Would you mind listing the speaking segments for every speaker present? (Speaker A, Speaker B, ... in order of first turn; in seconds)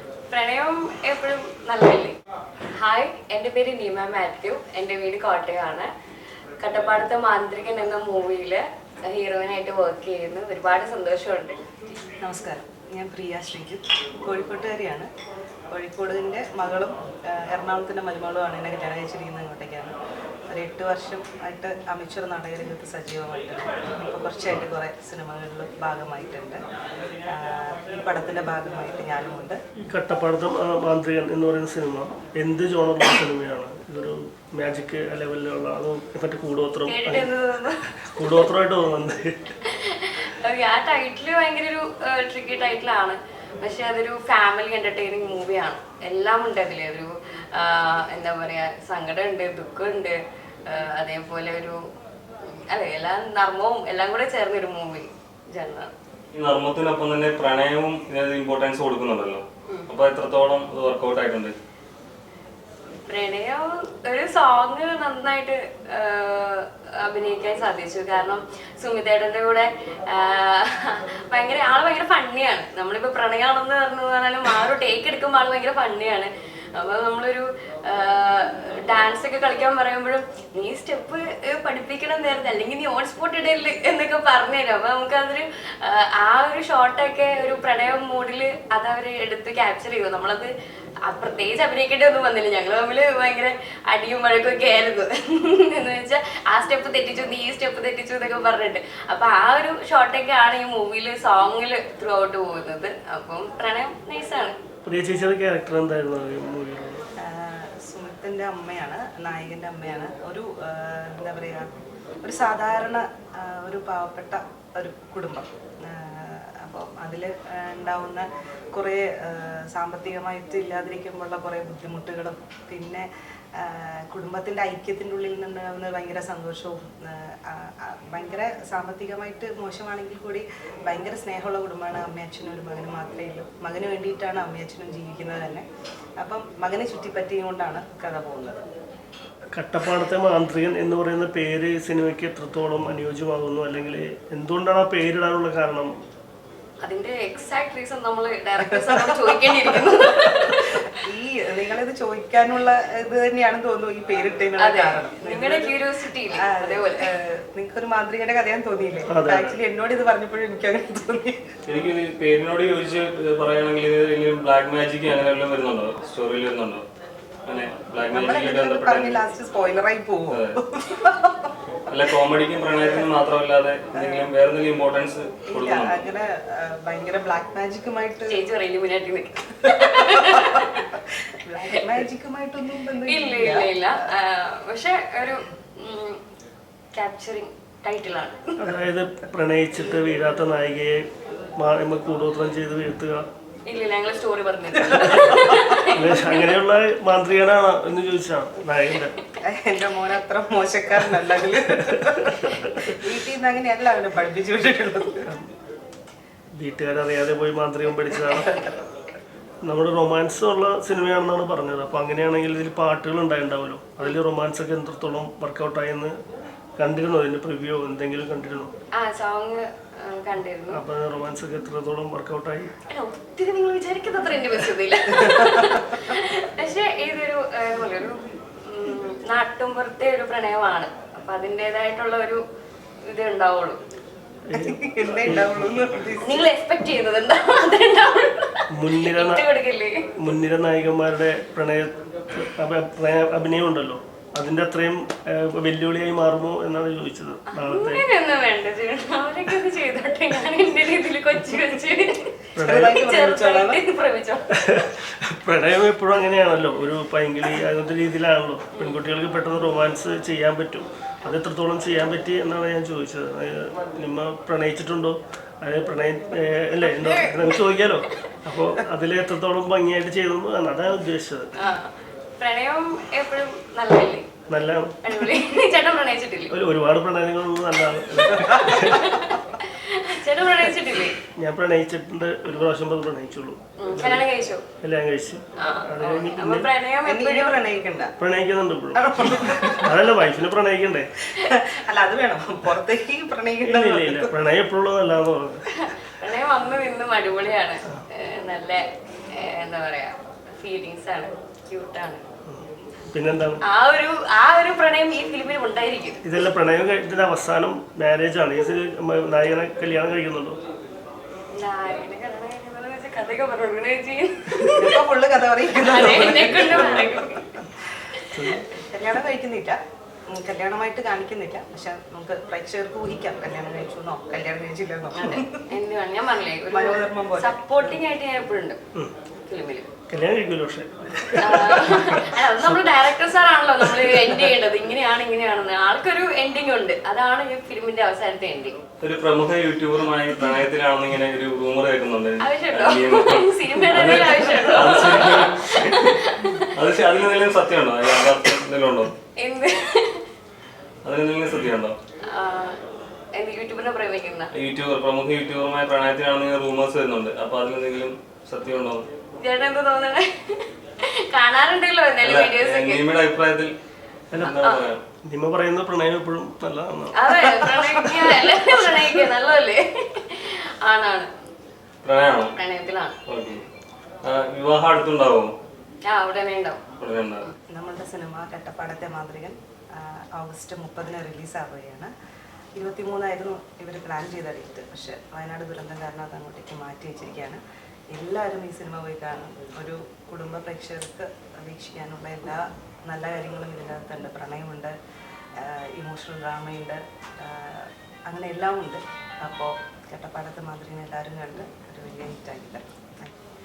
Speaker A: 0.3-2.2, 2.7-5.9, 6.6-11.6, 36.9-38.3, 39.6-51.8, 52.4-55.9, 63.1-90.5, 91.1-104.5, 146.8-150.9, 154.6-157.1, 178.3-180.9, 183.1-186.2, 186.9-188.7, 193.7-196.5, 219.0-220.8, 222.9-232.4, 233.1-233.8, 236.2-240.1, 247.5-252.4, 252.9-254.4, 271.6-274.3, 275.0-276.5, 278.7-281.2, 283.8-284.6, 285.6-287.6, 295.7-302.2, 303.6-306.2, 311.6-315.0, 315.7-317.6, 325.1-328.8, 329.5-329.9, 331.4-338.8, 342.4-346.8, 349.4-350.2, 352.3-352.8, 353.4-354.5, 359.4-363.1, 364.5-364.9, 367.2-371.3, 372.6-373.1, 376.1-376.8
Speaker B: 12.2-15.1, 15.7-19.9, 20.5-26.6, 27.3-29.6, 107.2-111.7, 112.2-123.1, 123.6-135.7, 136.2-138.6, 148.7-161.4, 168.1-171.6, 172.8-173.1, 173.9-174.3, 175.5-178.4, 179.7-183.8, 194.9-195.7, 199.4-205.3, 208.4-208.8, 225.2-225.8, 234.5-236.5, 252.6-253.8, 278.4-278.9, 287.1-288.1, 288.9-289.9, 291.4-294.3, 314.7-317.6, 318.7-319.8, 320.3-325.7, 326.7-327.9, 377.7-382.1, 382.8-387.6, 388.1-394.9, 395.6-403.4
Speaker C: 29.8-37.3, 38.1-39.6, 104.8-107.0, 139.6-146.0, 159.1-159.6, 188.6-191.0, 191.6-193.3, 195.9-199.1, 202.0-202.8, 205.3-205.5, 206.6-208.6, 209.6-216.2, 216.8-218.7, 220.7-222.7, 234.5-235.9, 238.7-239.4, 240.2-248.1, 252.6-253.0, 254.6-271.5, 274.5-275.2, 276.5-279.1, 281.4-284.3, 284.8-286.7, 288.2-291.1, 293.6-295.6, 302.5-303.6, 306.2-310.6, 316.5-317.1, 318.3-318.7, 330.1-333.0, 333.8-334.6, 364.3-364.6, 365.3-369.1
Speaker D: 56.3-61.5, 161.7-166.8, 167.5-169.2, 170.3-170.6, 171.9-176.1, 339.0-349.1, 351.0-352.0, 354.5-359.1, 362.2-363.7, 364.3-365.0, 372.0-372.6, 373.3-373.6, 374.2-375.6, 377.0-377.5